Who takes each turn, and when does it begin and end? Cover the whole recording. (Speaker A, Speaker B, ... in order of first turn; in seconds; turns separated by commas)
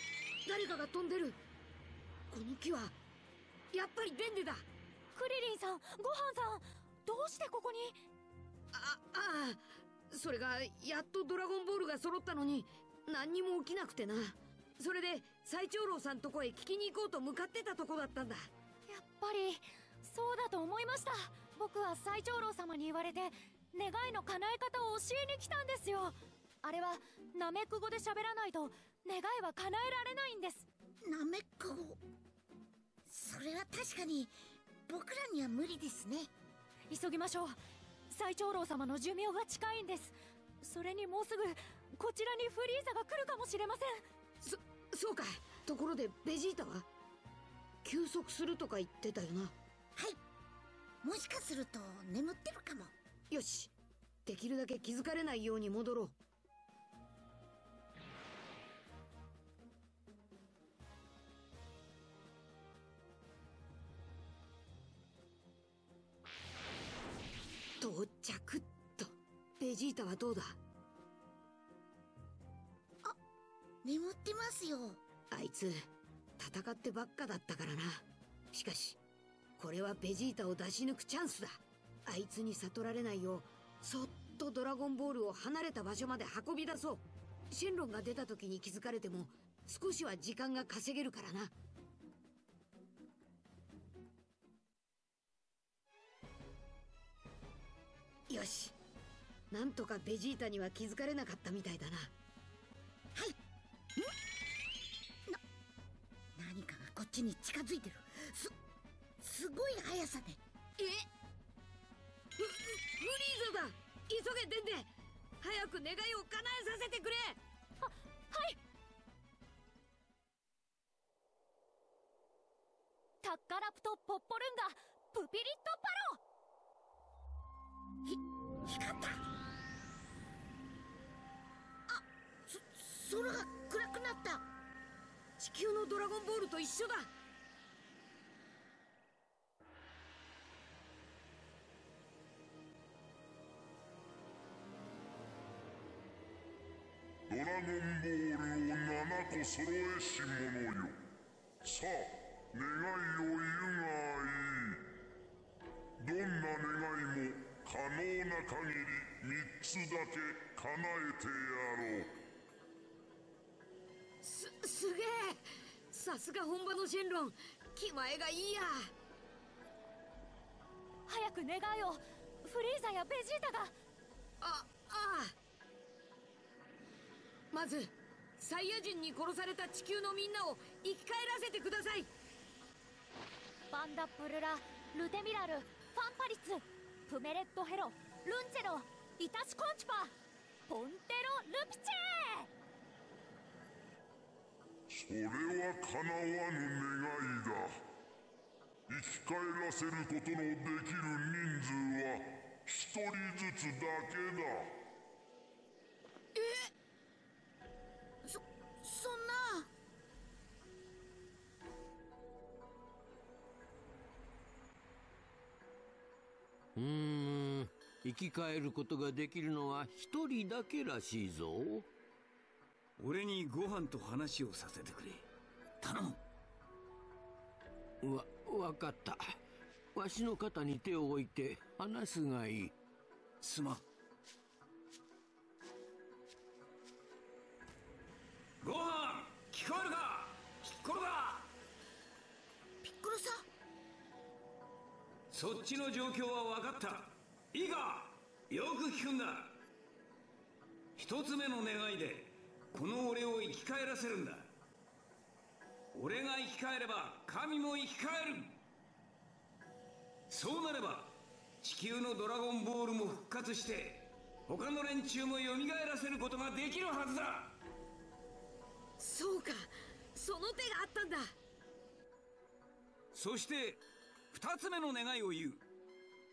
Speaker A: 0.5-1.4, Speaker A: 2.3-3.0, Speaker A: 3.7-4.7, Speaker B: 5.1-8.0, Speaker A: 8.7-18.5, Speaker B: 18.9-30.7, Speaker C: 31.0-32.0, Speaker C: 33.1-34.3, Speaker C: 34.9-36.3, Speaker B: 36.9-44.0, Speaker A: 44.4-46.9, Speaker A: 47.8-49.5, Speaker C: 51.0-52.9, Speaker A: 53.3-53.7, Speaker A: 54.2-56.1, Speaker A: 67.8-70.6, Speaker C: 73.8-75.0, Speaker A: 75.3-75.8, Speaker A: 76.4-79.0, Speaker A: 79.6-91.5, Speaker A: 98.3-98.7, Speaker A: 99.5-102.1, Speaker C: 106.3-108.5, Speaker C: 109.2-110.4, Speaker A: 110.8-111.1, Speaker A: 112.4-117.4, Speaker B: 117.8-118.6, Speaker B: 123.2-126.2, Speaker C: 128.1-129.2, Speaker C: 131.9-134.4, Speaker A: 135.4-137.1, Speaker D: 147.3-150.9, Speaker D: 151.6-154.8, Speaker D: 156.0-162.1, Speaker A: 164.2-168.9, Speaker B: 171.1-173.7, Speaker A: 174.4-175.3, Speaker A: 177.5-182.1, Speaker B: 183.7-190.1, Speaker B: 190.7-192.5, Speaker D: 194.9-197.7, Speaker D: 198.9-204.7, Speaker A: 206.4-206.7, Speaker C: 208.2-209.7, Speaker E: 216.8-221.8, Speaker F: 223.0-225.3, Speaker F: 225.8-226.2, Speaker E: 228.0-229.3, Speaker E: 229.9-232.7, Speaker F: 233.4-233.8, Speaker F: 238.6-241.5, Speaker C: 242.8-243.4, Speaker F: 245.3-249.6, Speaker F: 251.0-254.5, Speaker F: 255.9-258.6, Speaker F: 260.3-267.6, Speaker A: 269.0-271.3, Speaker F: 273.1-273.8, Speaker F: 274.3-275.6